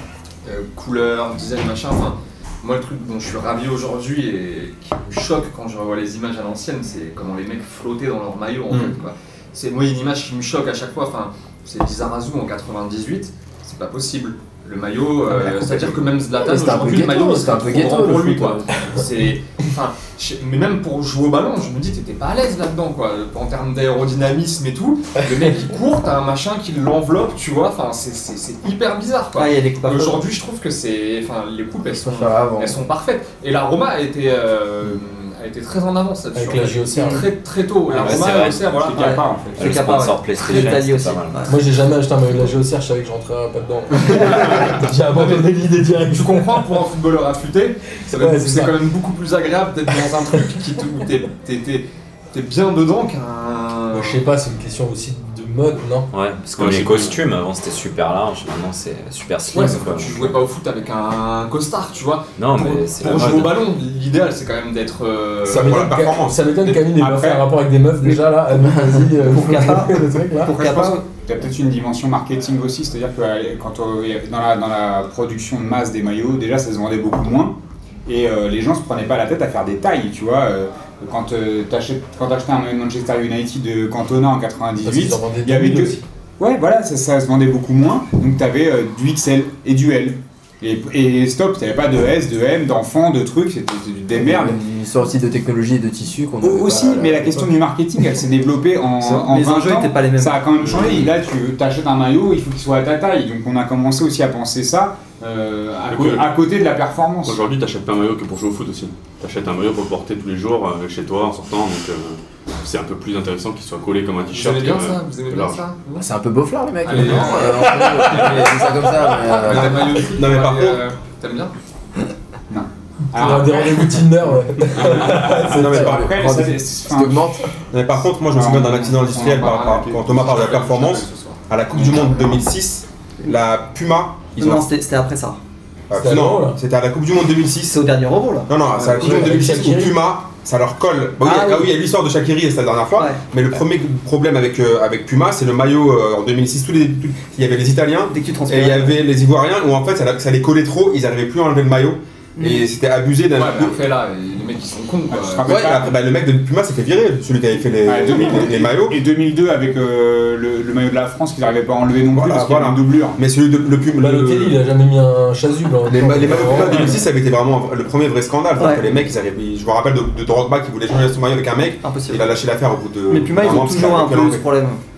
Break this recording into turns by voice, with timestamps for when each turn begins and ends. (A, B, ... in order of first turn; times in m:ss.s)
0:00.4-0:39.2 A
0:15.3-0:18.7 B
0:29.3-0:30.2 C
0:32.0-0:32.8 B
0:36.3-0:37.3 D
0:37.9-0:38.6 E
0:38.1-0:39.8 F
0:38.9-0:41.6 C
0:39.6-0:41.4 E
0:41.5-0:46.6 D
0:44.0-0:54.2 A
0:48.1-0:48.8 D
0:53.9-0:56.1 D
0:56.1-1:00.4 E
0:56.6-0:57.2 G
0:59.5-0:59.8 D
0:59.6-1:05.8 A
1:02.4-1:03.6 E
1:05.4-1:06.5 H
1:05.5-1:10.5 D
1:06.9-1:07.4 F
1:08.0-1:11.0 C
1:10.4-1:34.6 F
1:24.8-1:26.0 D
1:34.1-1:37.5 B
1:36.4-1:47.4 F
1:39.0-1:41.0 C
1:40.7-1:41.1 G
1:45.9-1:46.3 G
1:47.2-1:55.6 G
1:54.3-1:56.1 A
1:56.0-1:59.9 B
1:56.8-1:58.6 A
1:57.0-1:58.7 D
1:59.2-2:01.5 A
1:59.5-2:00.8 H
2:02.5-2:04.1 F
2:03.1-2:05.9 D
2:04.7-2:07.4 F
2:04.8-2:06.4 H
2:05.7-2:07.5 B
2:07.7-2:14.7 H
2:08.3-2:09.5 F
2:09.2-2:12.4 A
2:14.3-2:15.4 C
2:15.9-2:17.8 H
2:15.9-2:16.6 D
2:17.6-2:18.5 C
2:18.5-2:33.8 H
2:18.9-2:20.0 D
2:21.2-2:21.8 C
2:23.0-2:23.2 C
2:28.1-2:29.0 C
2:32.4-2:32.7 C
2:33.3-2:35.6 A
2:35.1-2:36.0 F
2:35.4-2:39.0 H
2:37.8-2:43.2 F
2:42.1-2:44.6 H
2:44.0-2:47.0 D
2:45.8-2:54.4 H
2:48.6-2:48.9 C
2:51.8-2:52.4 C
2:53.1-2:54.8 C